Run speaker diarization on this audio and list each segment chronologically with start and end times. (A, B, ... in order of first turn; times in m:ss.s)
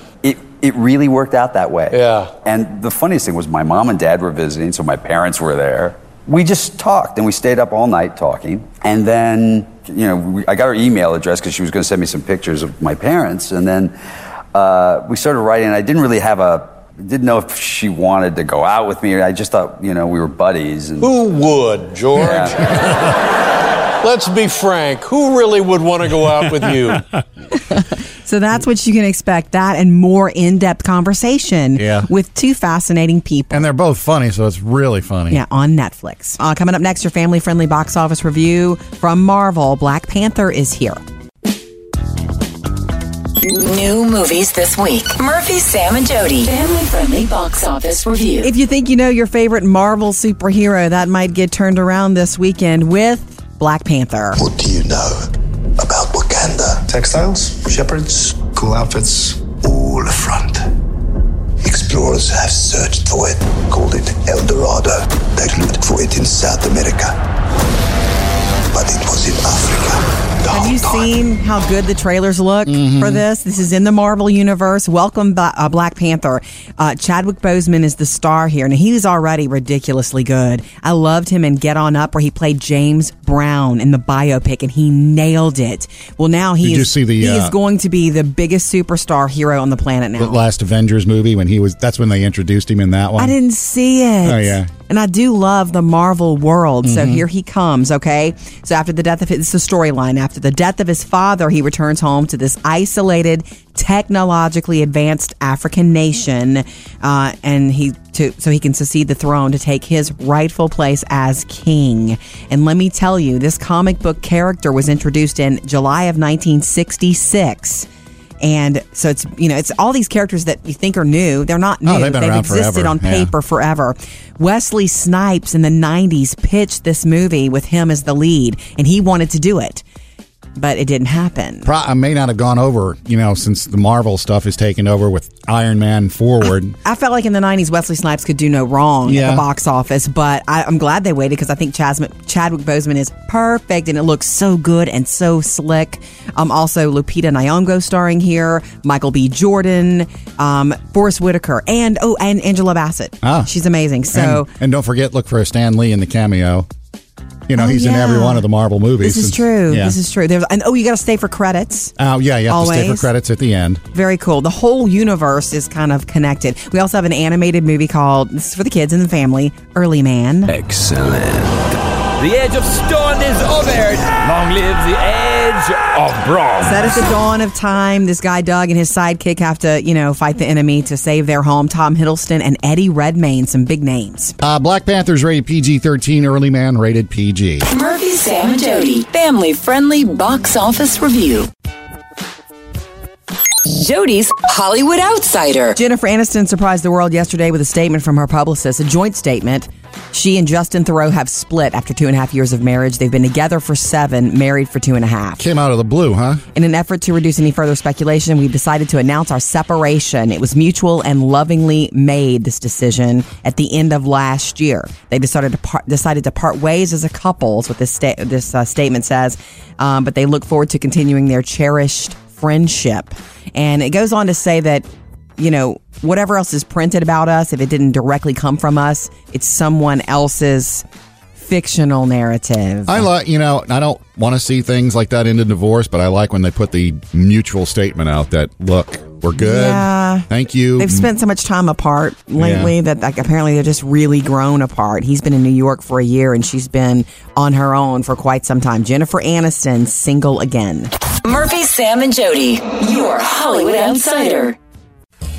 0:00.2-0:13.9 A
0:01.9-0:02.3 B
0:14.5-0:21.1 A
0:21.0-0:23.2 B
0:22.1-0:22.6 A
0:24.0-0:27.0 B
0:27.5-0:33.7 C
0:31.8-0:32.1 D
0:33.5-0:35.4 D
0:35.3-0:41.0 C
0:43.4-0:48.5 E
0:48.4-0:54.4 C
0:54.4-1:00.7 F
1:01.6-1:07.2 F
1:08.7-1:11.1 F
1:10.5-1:30.4 C
1:12.7-1:13.2 D
1:26.6-1:27.5 D
1:30.2-1:33.3 D
1:33.2-1:57.9 C
1:34.2-1:34.7 D
1:36.8-1:37.2 D
1:58.4-2:09.8 C
2:01.8-2:03.3 D
2:10.6-2:11.7 C
2:11.6-2:16.8 D
2:16.8-2:34.5 C
2:19.1-2:19.4 D
2:33.2-2:33.5 D
2:34.1-2:36.7 D
2:37.5-2:40.0 D
2:37.6-2:38.5 C
2:39.0-2:41.9 C
2:42.0-2:43.8 D
2:42.5-2:43.1 C
2:43.9-2:50.5 C
2:50.4-2:57.1 G
2:56.6-3:04.4 C
3:04.4-3:07.7 D
3:07.7-3:11.5 E
3:13.6-3:15.8 E
3:15.8-3:25.4 C
3:25.4-3:26.4 D
3:26.5-3:44.8 C
3:45.4-3:50.8 C
3:51.4-3:53.0 C
3:52.9-4:01.1 D
3:59.4-4:10.9 C
4:02.4-4:02.7 D
4:11.2-4:14.6 E